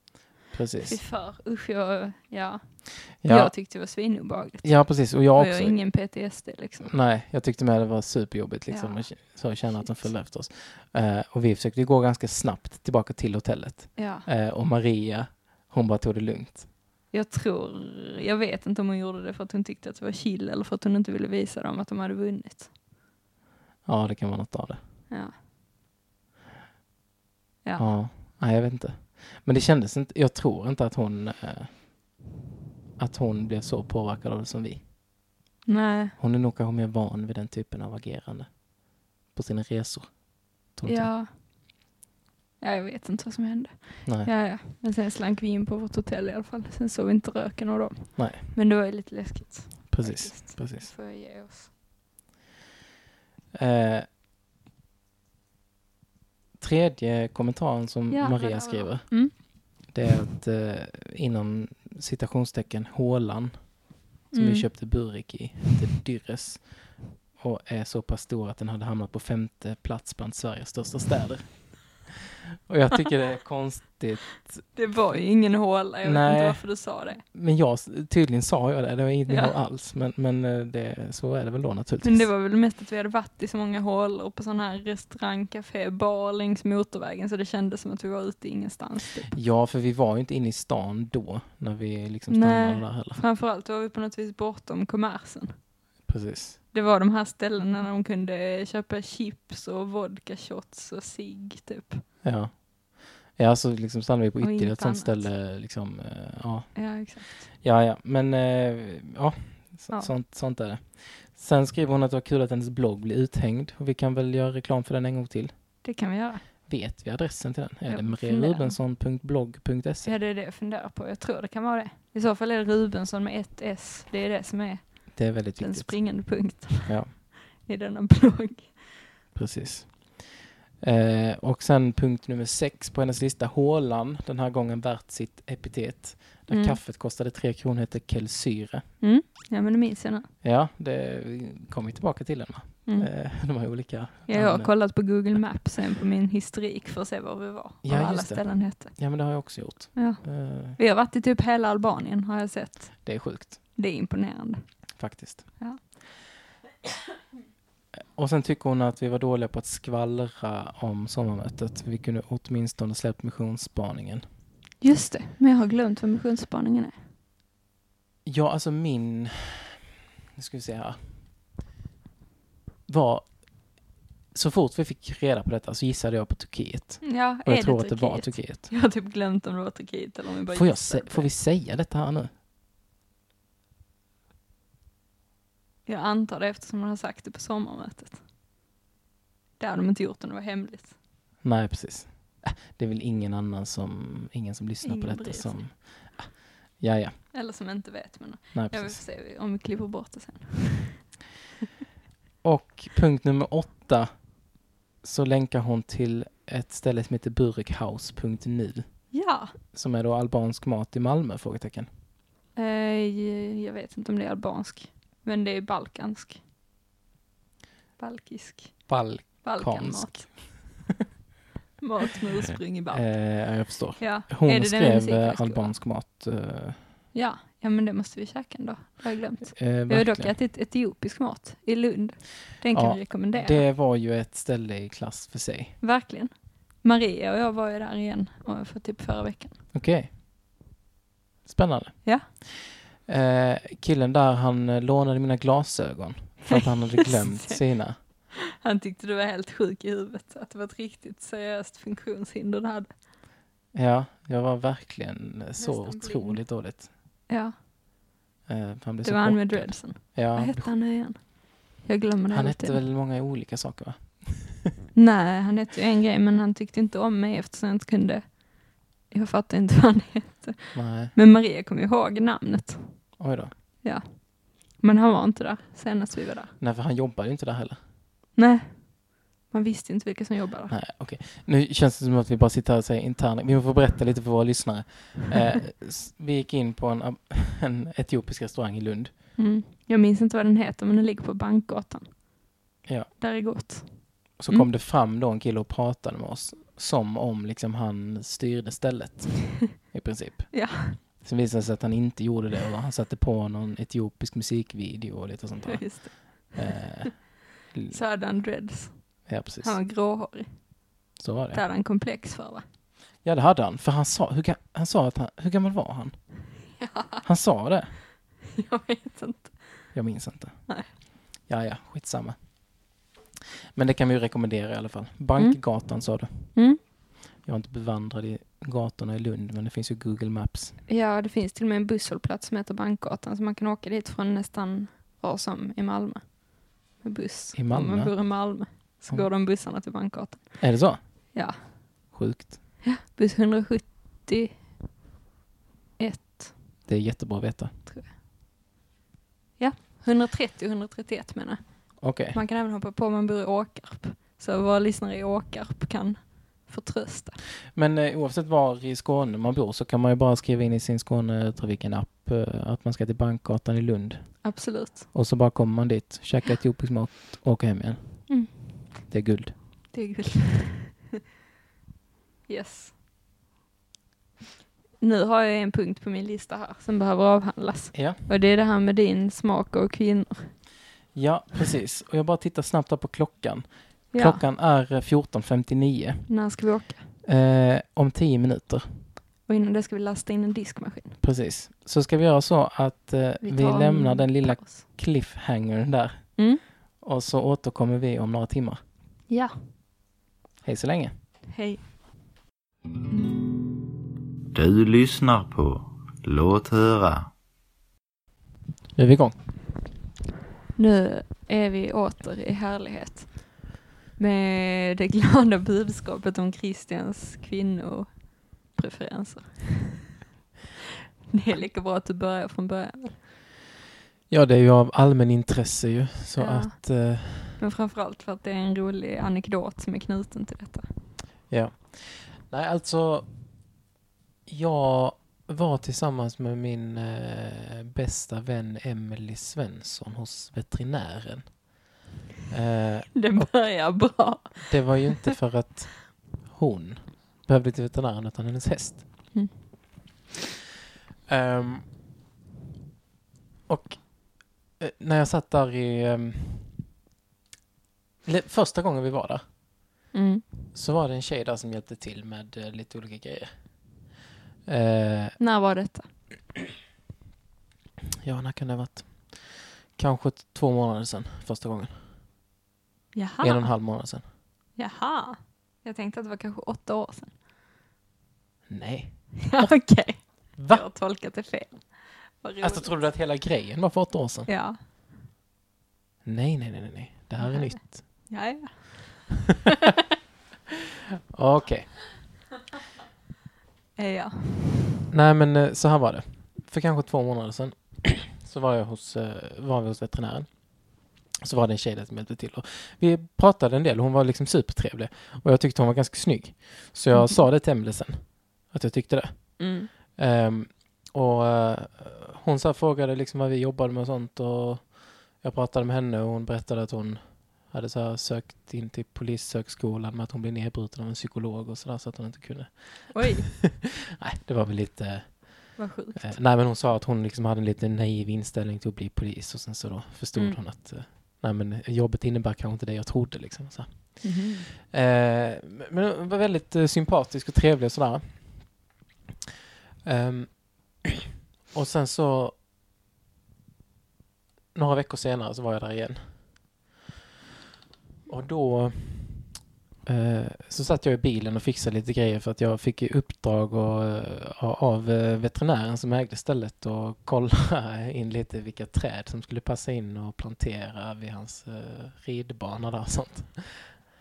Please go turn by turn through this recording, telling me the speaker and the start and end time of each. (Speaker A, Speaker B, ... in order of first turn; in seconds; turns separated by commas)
Speaker A: 0.5-1.0, Speaker B: 0.8-6.9, Speaker A: 3.2-3.5, Speaker A: 4.6-5.8, Speaker A: 6.8-16.7, Speaker B: 8.7-10.1, Speaker B: 14.0-14.3, Speaker B: 17.1-22.7, Speaker A: 23.9-24.8, Speaker B: 25.1-25.4, Speaker A: 27.8-31.8, Speaker A: 33.0-34.9, Speaker B: 35.7-36.1, Speaker A: 36.2-41.1, Speaker B: 40.9-41.3, Speaker B: 42.6-51.7, Speaker A: 44.0-44.3, Speaker A: 48.2-48.4, Speaker A: 49.9-50.9, Speaker A: 53.5-54.1, Speaker A: 56.6-72.1, Speaker B: 58.1-59.9, Speaker B: 64.3-64.7, Speaker A: 72.7-74.7, Speaker B: 74.7-77.2, Speaker A: 76.0-82.3, Speaker B: 79.3-79.5, Speaker B: 82.0-89.4, Speaker A: 89.3-93.2, Speaker B: 92.3-95.6, Speaker A: 96.1-96.6, Speaker B: 96.7-102.0, Speaker A: 102.2-115.5, Speaker B: 104.4-105.3, Speaker B: 106.8-107.5, Speaker B: 115.8-116.5, Speaker A: 116.7-120.1, Speaker B: 117.9-118.8, Speaker B: 120.0-128.9, Speaker A: 125.1-127.1, Speaker A: 129.3-138.9, Speaker B: 136.5-136.8, Speaker B: 139.0-140.3, Speaker A: 140.4-144.7, Speaker B: 144.3-149.0, Speaker A: 147.8-150.8, Speaker B: 149.9-154.8, Speaker A: 153.0-153.6, Speaker A: 155.0-155.6, Speaker A: 157.9-164.2, Speaker B: 164.8-166.9, Speaker A: 168.2-169.8, Speaker A: 170.3-171.1, Speaker A: 172.9-173.8, Speaker A: 174.3-178.7, Speaker B: 177.0-181.3, Speaker A: 180.5-182.3, Speaker B: 185.9-188.2, Speaker B: 189.6-191.0, Speaker A: 191.4-197.2, Speaker B: 194.8-195.6, Speaker B: 197.3-201.0, Speaker A: 198.5-199.0, Speaker A: 202.4-204.3, Speaker A: 205.0-211.9, Speaker B: 209.1-209.5, Speaker B: 212.5-216.4, Speaker B: 218.0-220.7, Speaker A: 218.9-220.8, Speaker B: 221.8-223.4, Speaker A: 222.9-226.8, Speaker B: 224.0-225.8, Speaker B: 227.1-233.7, Speaker A: 229.6-230.3, Speaker A: 232.7-235.8, Speaker B: 235.8-239.6, Speaker A: 239.7-240.1, Speaker A: 241.5-248.0, Speaker B: 246.5-252.9, Speaker A: 253.7-256.9, Speaker B: 255.6-256.4, Speaker B: 257.3-257.6, Speaker A: 258.5-260.7, Speaker B: 259.0-262.8, Speaker A: 262.3-264.7, Speaker B: 264.9-273.2, Speaker A: 270.7-271.1, Speaker A: 273.2-273.5, Speaker B: 273.8-276.5, Speaker A: 276.6-277.8, Speaker B: 278.4-280.8, Speaker A: 280.7-289.1, Speaker B: 289.4-292.2, Speaker A: 292.9-293.1, Speaker B: 293.2-294.7, Speaker A: 294.4-308.0, Speaker B: 300.5-301.0, Speaker B: 305.7-306.6, Speaker B: 307.9-310.7, Speaker A: 309.3-309.8, Speaker A: 311.2-311.6, Speaker B: 311.5-312.6, Speaker A: 313.2-316.2, Speaker B: 316.8-317.2, Speaker A: 317.2-318.0, Speaker B: 318.5-319.9, Speaker A: 319.9-322.4, Speaker A: 323.7-326.6, Speaker B: 325.4-325.8, Speaker B: 326.5-326.8, Speaker A: 327.4-330.8, Speaker B: 330.9-340.8, Speaker A: 337.5-339.3, Speaker A: 340.6-341.0, Speaker B: 341.3-342.0, Speaker A: 342.1-342.6, Speaker B: 342.8-344.7, Speaker B: 346.0-346.6, Speaker A: 346.9-347.7, Speaker B: 347.9-348.1, Speaker B: 349.6-357.4, Speaker A: 352.0-352.4, Speaker A: 357.7-369.5, Speaker B: 364.4-365.1, Speaker B: 368.3-368.8, Speaker B: 369.9-371.0, Speaker B: 372.5-372.9, Speaker B: 375.0-380.6, Speaker A: 377.9-378.2, Speaker A: 381.1-386.3, Speaker B: 384.1-384.4, Speaker B: 386.3-387.0, Speaker A: 387.2-388.9, Speaker B: 389.5-391.2, Speaker A: 391.2-396.4, Speaker B: 393.4-394.8, Speaker B: 396.4-396.6, Speaker A: 397.0-398.8, Speaker B: 399.3-399.6, Speaker A: 400.6-401.1, Speaker B: 401.5-401.8, Speaker C: 404.5-407.3, Speaker A: 408.9-409.4, Speaker B: 410.8-420.0, Speaker B: 421.3-423.2, Speaker A: 424.3-427.6, Speaker B: 426.4-430.9, Speaker A: 431.5-433.3, Speaker A: 434.5-441.7, Speaker A: 442.5-449.3, Speaker B: 443.2-445.3, Speaker A: 451.3-451.9, Speaker A: 453.7-456.8, Speaker A: 458.2-459.4, Speaker B: 460.1-460.4, Speaker A: 460.7-463.6, Speaker A: 464.7-465.4, Speaker B: 465.4-466.1, Speaker A: 468.2-472.0, Speaker B: 473.1-473.7, Speaker A: 473.4-474.2, Speaker B: 474.8-477.3, Speaker A: 478.7-479.8, Speaker B: 479.4-483.2, Speaker A: 480.6-480.9, Speaker A: 482.6-484.5, Speaker B: 484.5-484.8, Speaker A: 486.2-488.3, Speaker B: 487.4-489.5, Speaker A: 491.3-492.1, Speaker B: 494.0-494.9, Speaker A: 495.1-534.3, Speaker B: 509.6-509.9, Speaker B: 523.1-523.5, Speaker B: 525.8-526.4, Speaker B: 530.4-530.6, Speaker B: 534.2-534.7, Speaker A: 534.8-538.9, Speaker A: 540.0-541.1, Speaker A: 541.7-542.6, Speaker A: 544.8-546.7, Speaker A: 548.3-564.1